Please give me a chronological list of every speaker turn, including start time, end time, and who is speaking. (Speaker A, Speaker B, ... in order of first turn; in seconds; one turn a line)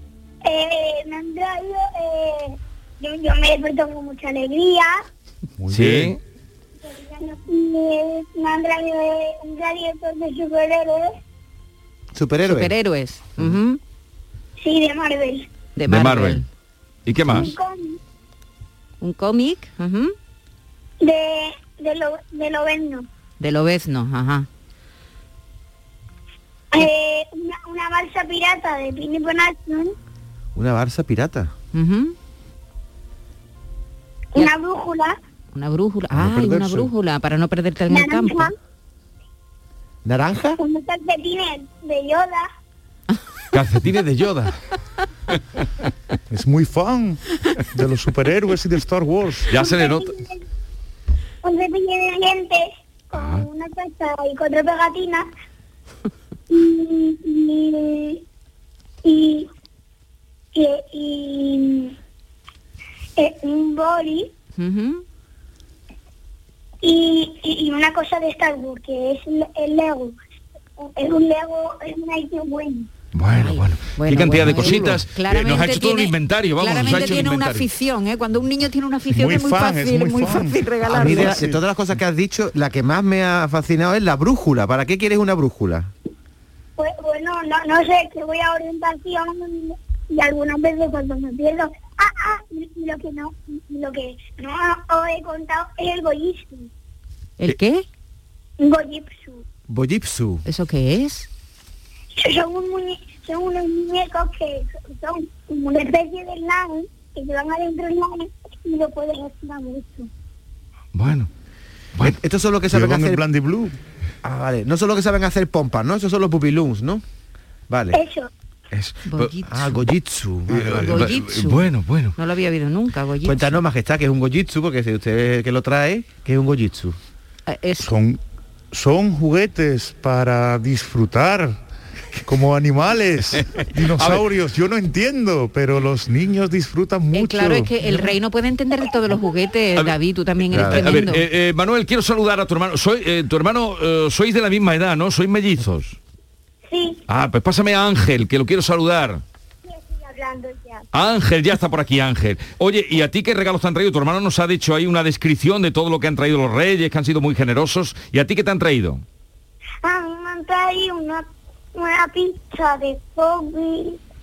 Speaker A: 0.4-4.9
Speaker B: 5.6-6.2
Speaker C: 5.7-6.2
Speaker A: 6.9-11.2
Speaker D: 12.1-12.7
Speaker E: 12.4-13.8
Speaker A: 14.6-15.5
Speaker E: 15.8-16.4
Speaker C: 15.9-16.4
Speaker C: 17.1-17.5
Speaker A: 17.3-18.0
Speaker E: 19.0-20.1
Speaker A: 21.0-23.0
Speaker E: 23.4-24.5
Speaker A: 26.7-29.9
Speaker D: 30.5-31.5
Speaker E: 31.7-32.1
Speaker A: 34.3-35.2
Speaker E: 35.5-38.5
Speaker B: 36.1-36.9
Speaker A: 37.9-38.5
Speaker D: 40.0-40.6
Speaker A: 40.6-42.5
Speaker C: 43.5-44.5
Speaker B: 46.3-47.2
Speaker B: 47.7-49.5
Speaker C: 49.5-50.1
Speaker A: 49.6-50.4
Speaker A: 51.4-55.2
Speaker C: 53.1-53.5
Speaker A: 56.5-58.2
Speaker A: 59.0-59.5
Speaker A: 60.5-61.9
Speaker A: 63.2-64.3
Speaker E: 64.6-65.0
Speaker A: 66.8-70.1
Speaker A: 70.8-72.9
Speaker C: 73.1-77.7
Speaker E: 73.4-81.4
Speaker B: 79.1-81.6
Speaker D: 80.9-85.9
Speaker A: 86.8-96.7
Speaker E: 97.4-97.8
Speaker A: 98.6-99.4
Speaker D: 99.7-100.4
Speaker E: 100.4-101.3
Speaker A: 102.2-110.1
Speaker C: 110.9-111.3
Speaker D: 112.0-113.2
Speaker B: 112.7-113.8
Speaker D: 114.2-117.0
Speaker D: 117.7-118.0
Speaker A: 117.9-118.3
Speaker C: 118.7-119.3
Speaker E: 119.0-119.8
Speaker D: 119.4-121.1
Speaker C: 120.5-122.2
Speaker E: 120.8-123.6
Speaker D: 123.2-127.0
Speaker E: 127.5-127.9
Speaker B: 127.8-128.2
Speaker B: 128.7-131.6
Speaker B: 132.3-138.1
Speaker C: 133.3-134.2
Speaker E: 137.1-141.2
Speaker C: 140.5-146.0
Speaker D: 140.5-140.9
Speaker A: 146.7-147.0
Speaker C: 147.1-149.2
Speaker A: 149.6-150.8
Speaker C: 150.9-159.0
Speaker A: 159.8-161.2
Speaker A: 161.7-164.0